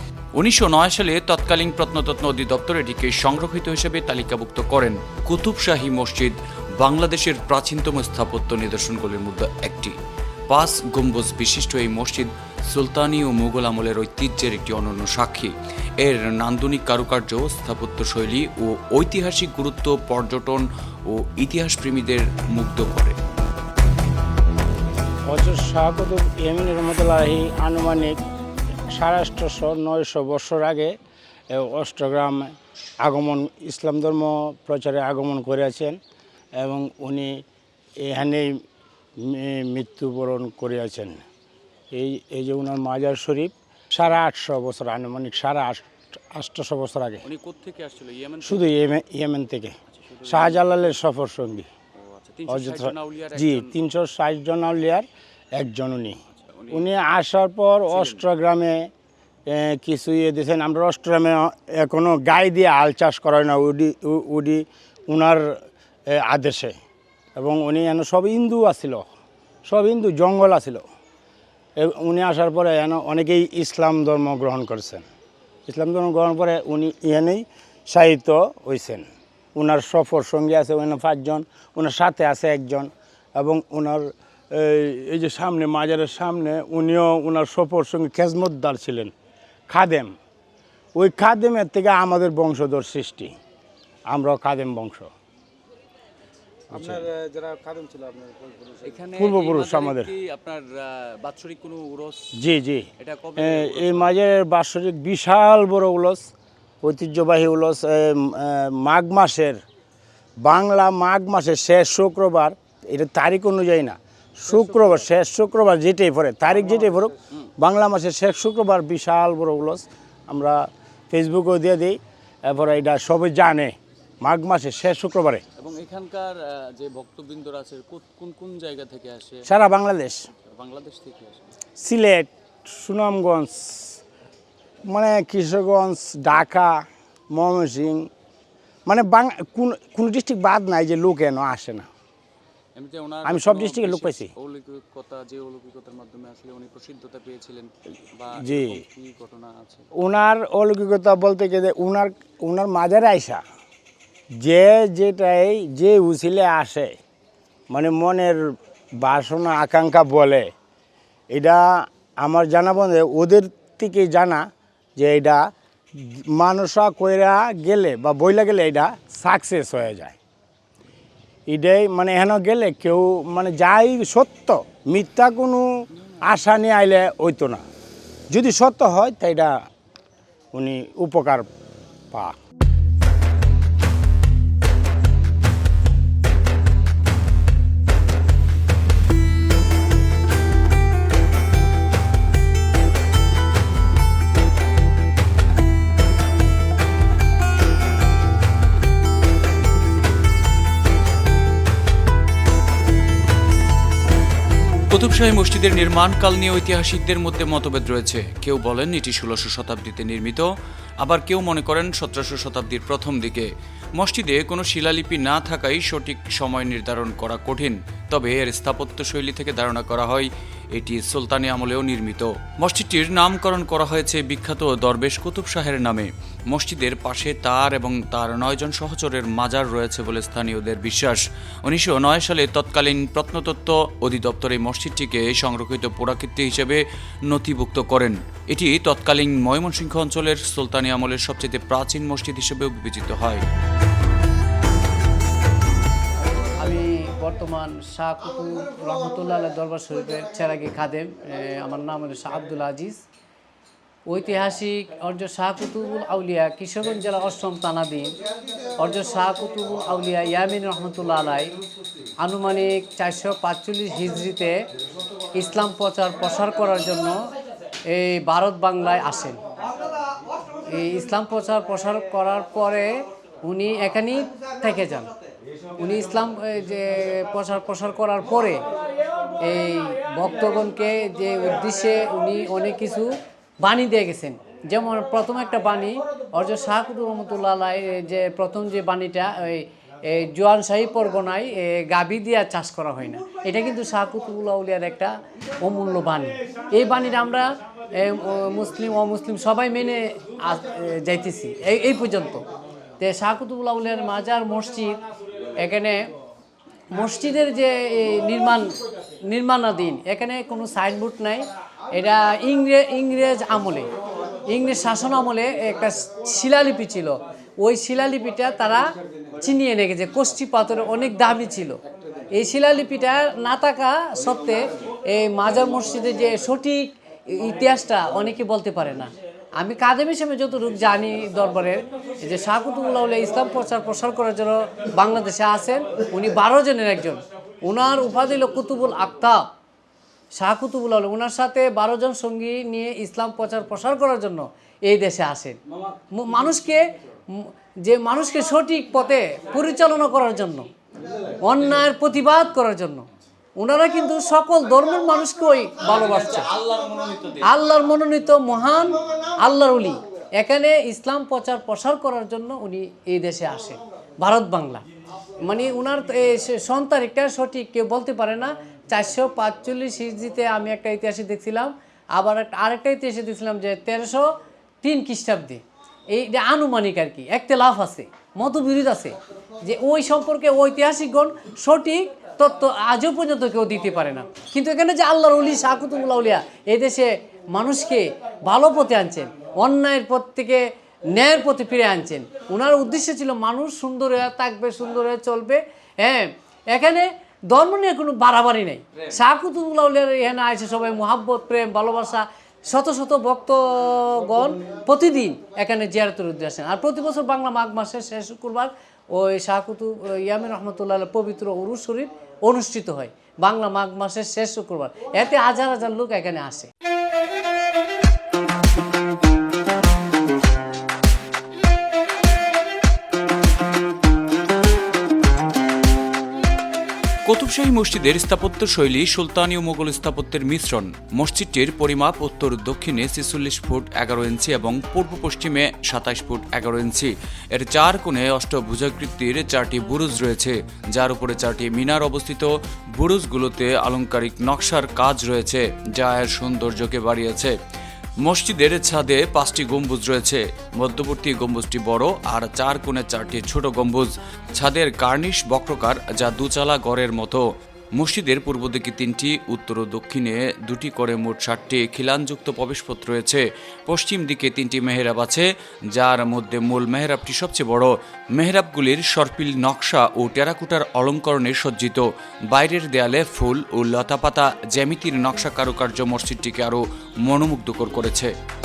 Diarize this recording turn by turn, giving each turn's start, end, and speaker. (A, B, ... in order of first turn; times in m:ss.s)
0:00.4-0:10.0 A
0:10.5-0:23.2 A
0:25.3-0:28.2 B
0:28.9-0:30.9 B
0:31.5-0:36.0 B
0:36.6-0:37.4 B
0:38.0-0:38.6 B
0:39.2-0:41.2 B
0:41.9-0:47.2 B
0:47.2-0:48.6 A
0:48.4-0:51.7 B
0:50.0-0:50.8 A
0:52.0-0:53.7 A
0:52.5-0:56.2 B
0:56.5-0:56.8 A
0:56.7-0:58.9 B
0:57.9-0:58.2 A
0:59.5-1:05.5 B
1:06.1-1:06.7 B
1:07.4-1:09.0 B
1:09.7-1:10.8 B
1:11.8-1:15.0 B
1:15.7-1:29.1 B
1:29.7-1:30.2 B
1:31.0-1:33.3 B
1:34.1-1:35.1 B
1:36.7-1:37.1 B
1:36.7-1:39.5 C
1:38.8-1:42.3 A
1:39.1-1:40.1 B
1:42.4-1:46.2 B
1:43.0-1:44.0 A
1:46.8-1:49.6 B
1:50.4-2:05.4 B
1:54.6-1:55.0 C
1:56.6-1:57.1 C
2:05.6-2:09.4 A
2:09.4-2:10.2 B
2:10.5-2:11.4 A
2:11.8-2:14.0 B
2:14.8-2:18.1 B
2:18.8-2:21.9 B
2:22.8-2:29.8 A
2:23.2-2:24.3 B
2:23.8-2:24.2 C
2:28.4-2:28.8 B
2:30.0-2:33.4 B
2:34.4-2:36.9 B
2:37.7-2:38.4 B
2:39.0-2:40.5 B
2:41.3-2:44.4 B
2:45.0-2:45.4 B
2:45.9-2:50.2 B
2:51.5-2:57.6 B
2:58.3-2:59.5 B
3:00.5-3:01.5 B
3:02.1-3:02.4 B
3:24.9-3:30.5 A
3:31.0-4:03.4 A
4:06.4-4:13.0 D
4:14.1-4:18.1 D
4:18.8-4:21.5 D
4:22.2-4:24.6 D
4:25.4-4:27.2 D
4:27.9-4:29.4 D
4:30.7-4:32.9 D
4:33.4-4:35.1 D
4:35.8-4:38.6 D
4:39.4-5:02.4 D
5:03.0-5:05.0 D
5:05.6-5:06.0 D
5:06.9-5:13.9 D
5:14.5-5:21.8 D
5:22.3-5:39.4 D
5:40.4-5:45.6 D
5:46.1-5:50.7 D
5:51.4-5:53.1 D
5:53.6-5:56.6 D
5:57.3-6:04.8 D
6:05.4-6:56.7 D
7:07.3-7:27.5 A
7:28.2-7:37.4 A
7:38.0-7:58.3 A